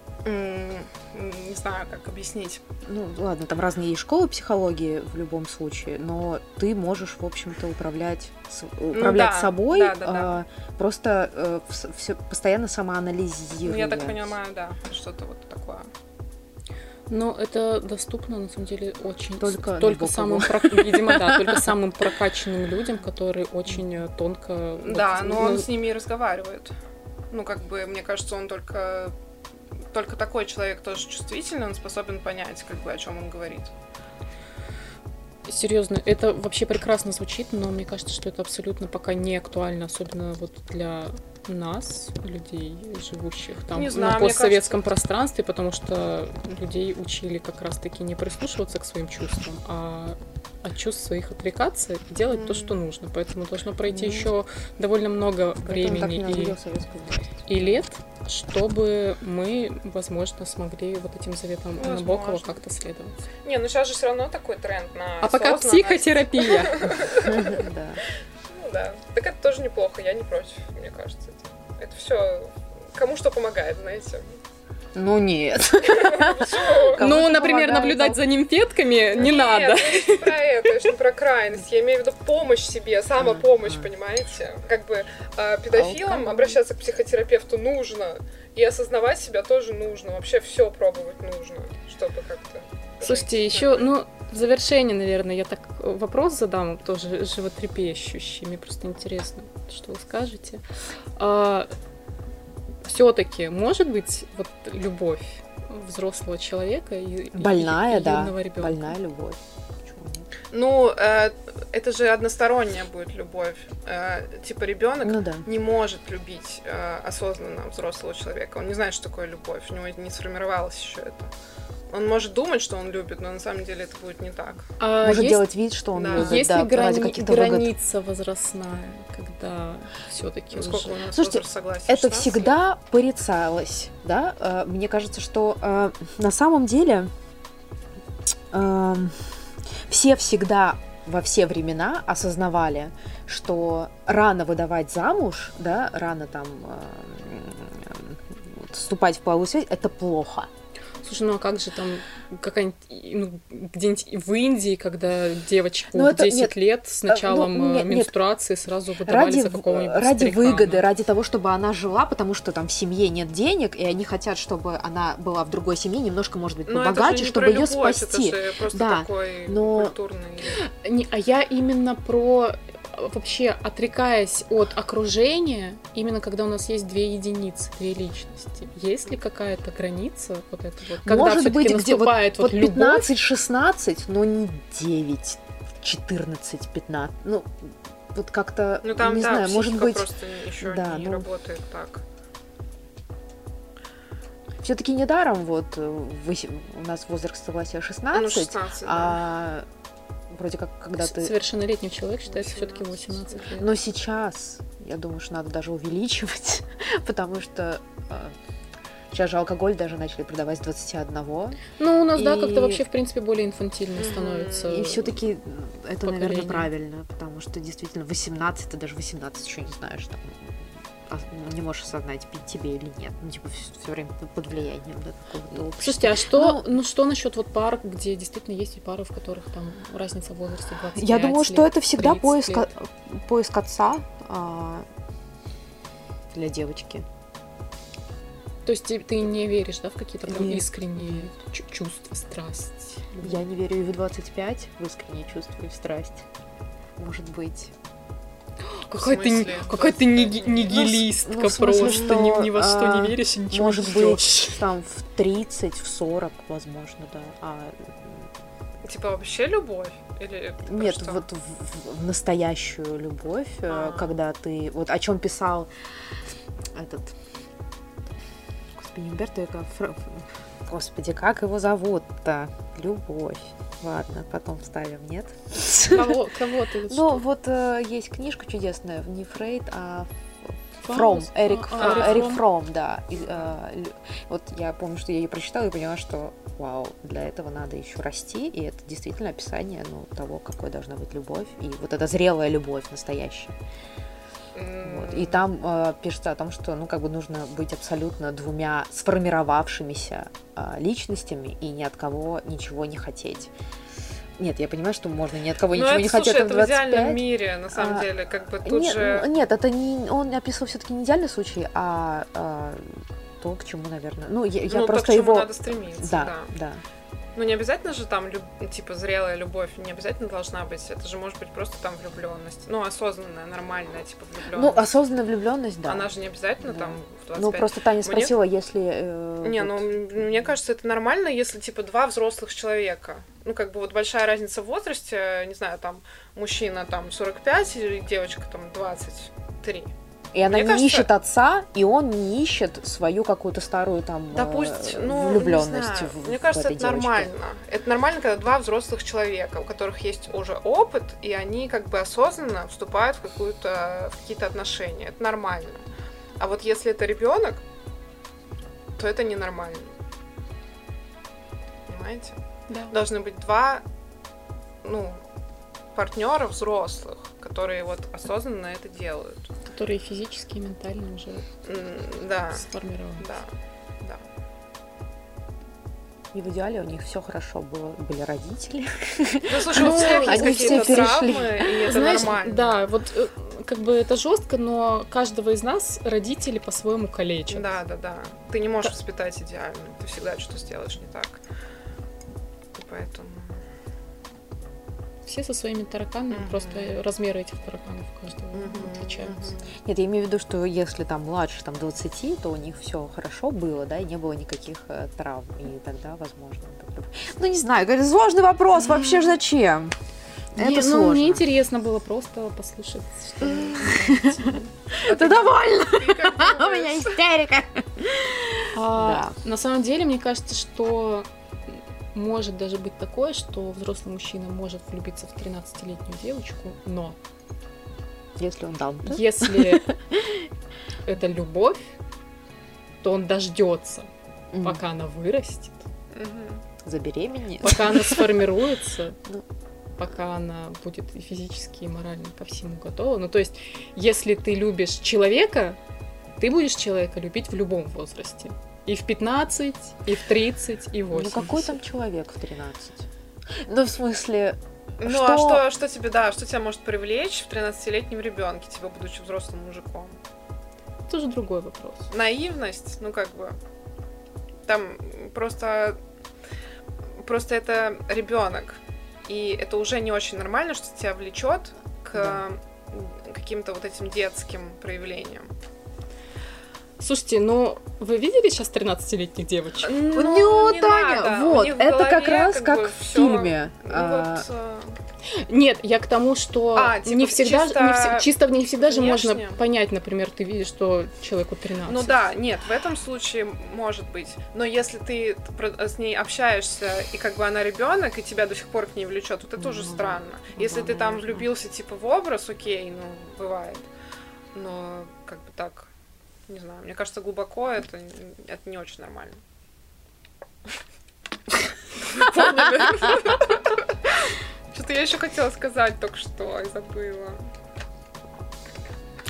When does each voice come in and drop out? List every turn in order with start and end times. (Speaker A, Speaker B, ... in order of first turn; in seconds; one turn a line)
Speaker A: 0.2-2.6
Speaker B: 2.9-14.3
Speaker A: 8.9-10.4
Speaker A: 13.6-15.9
Speaker C: 17.1-25.7
Speaker B: 19.4-21.7
Speaker A: 24.9-26.7
Speaker A: 27.3-29.1
Speaker A: 29.9-33.7
Speaker C: 35.5-56.6
Speaker A: 43.7-44.8
Speaker A: 52.3-52.8
Speaker B: 53.9-54.3
Speaker B: 55.6-57.8
Speaker C: 57.5-63.1
Speaker A: 61.8-62.6
Speaker A: 63.4-67.7
Speaker C: 65.2-66.9
Speaker B: 67.1-68.0
Speaker A: 68.5-74.4
Speaker B: 75.0-78.2
Speaker A: 75.8-77.0
Speaker C: 77.0-80.4
Speaker A: 79.1-93.9
Speaker B: 83.2-83.9
Speaker B: 85.7-86.6
Speaker C: 93.0-100.6
Speaker C: 101.2-101.7
Speaker C: 102.8-109.0
Speaker B: 107.4-110.3
Speaker A: 110.5-121.3
Speaker B: 115.0-115.5
Speaker A: 121.9-124.7
Speaker C: 124.8-125.5
Speaker B: 125.0-127.7
Speaker A: 126.0-126.4
Speaker C: 126.1-131.0
Speaker A: 130.5-132.6
Speaker B: 131.1-137.1
Speaker B: 138.5-150.5
Speaker C: 151.0-160.9
Speaker B: 155.9-158.1
Speaker B: 159.1-169.9
Speaker A: 166.7-170.6
Speaker C: 170.5-183.1
Speaker B: 181.0-190.1
Speaker A: 188.8-192.0
Speaker B: 190.6-191.3
Speaker B: 194.6-199.7
Speaker A: 198.1-199.2
Speaker B: 200.3-201.3
Speaker C: 201.0-203.7
Speaker A: 202.3-203.4
Speaker B: 203.6-208.4
Speaker B: 209.1-212.8
Speaker C: 211.8-215.2
Speaker A: 214.0-214.7
Speaker B: 214.6-226.7
Speaker C: 216.0-216.7
Speaker C: 225.8-232.7
Speaker B: 230.9-234.9
Speaker B: 236.3-237.1
Speaker C: 238.7-243.4
Speaker B: 240.3-241.3
Speaker B: 243.2-246.2
Speaker B: 247.0-247.7
Speaker C: 248.7-254.6
Speaker A: 249.0-250.9
Speaker B: 250.7-258.3
Speaker A: 251.8-252.2
Speaker A: 258.8-261.3
Speaker B: 260.6-265.7
Speaker A: 263.7-264.2
Speaker B: 266.6-267.2
Speaker B: 268.7-276.2
Speaker C: 275.8-277.2
Speaker B: 276.9-293.6
Speaker C: 280.8-282.4
Speaker A: 281.8-282.3
Speaker A: 294.6-295.4
Speaker B: 294.8-303.5
Speaker B: 304.4-308.1
Speaker A: 305.7-309.3
Speaker B: 308.6-316.8
Speaker A: 314.7-316.5
Speaker A: 317.4-324.9
Speaker B: 324.5-330.2
Speaker A: 325.9-328.4
Speaker A: 329.4-339.9
Speaker B: 340.3-347.3
Speaker A: 340.4-341.1
Speaker A: 344.3-355.9
Speaker A: 356.4-357.6
Speaker A: 359.0-359.9
Speaker A: 361.9-362.4
Speaker A: 362.9-363.8
Speaker A: 364.8-365.2
Speaker A: 365.9-369.5
Speaker C: 369.7-371.5
Speaker A: 371.6-372.6
Speaker C: 372.5-373.3
Speaker A: 373.2-374.2
Speaker B: 376.3-381.8
Speaker A: 379.5-382.8
Speaker C: 379.8-381.2
Speaker C: 381.9-387.7
Speaker A: 387.5-391.4
Speaker A: 392.8-393.6
Speaker C: 395.3-399.5
Speaker A: 396.3-397.0
Speaker A: 398.5-399.8
Speaker B: 399.8-409.9
Speaker C: 408.9-409.3
Speaker B: 410.6-411.4
Speaker C: 410.6-414.7
Speaker B: 413.8-419.4
Speaker A: 415.0-417.2
Speaker C: 418.7-427.2
Speaker B: 428.4-430.5
Speaker C: 429.0-429.9
Speaker C: 431.1-432.0
Speaker C: 433.0-434.1
Speaker B: 434.5-434.8
Speaker C: 434.6-435.9
Speaker A: 436.1-436.6
Speaker B: 436.8-438.4
Speaker C: 437.6-439.2
Speaker C: 440.0-445.8
Speaker C: 446.4-451.8
Speaker B: 451.1-455.6
Speaker A: 455.0-460.2
Speaker C: 461.1-462.1
Speaker A: 462.1-463.6
Speaker A: 464.7-466.0
Speaker A: 467.2-475.5
Speaker B: 472.1-472.4
Speaker C: 477.0-480.0
Speaker A: 479.8-485.0
Speaker B: 480.1-484.5
Speaker C: 485.4-492.2
Speaker A: 486.8-489.6
Speaker A: 491.9-503.9
Speaker B: 499.6-501.5
Speaker A: 504.5-505.9
Speaker A: 506.5-509.4
Speaker A: 512.0-517.4
Speaker C: 512.3-513.1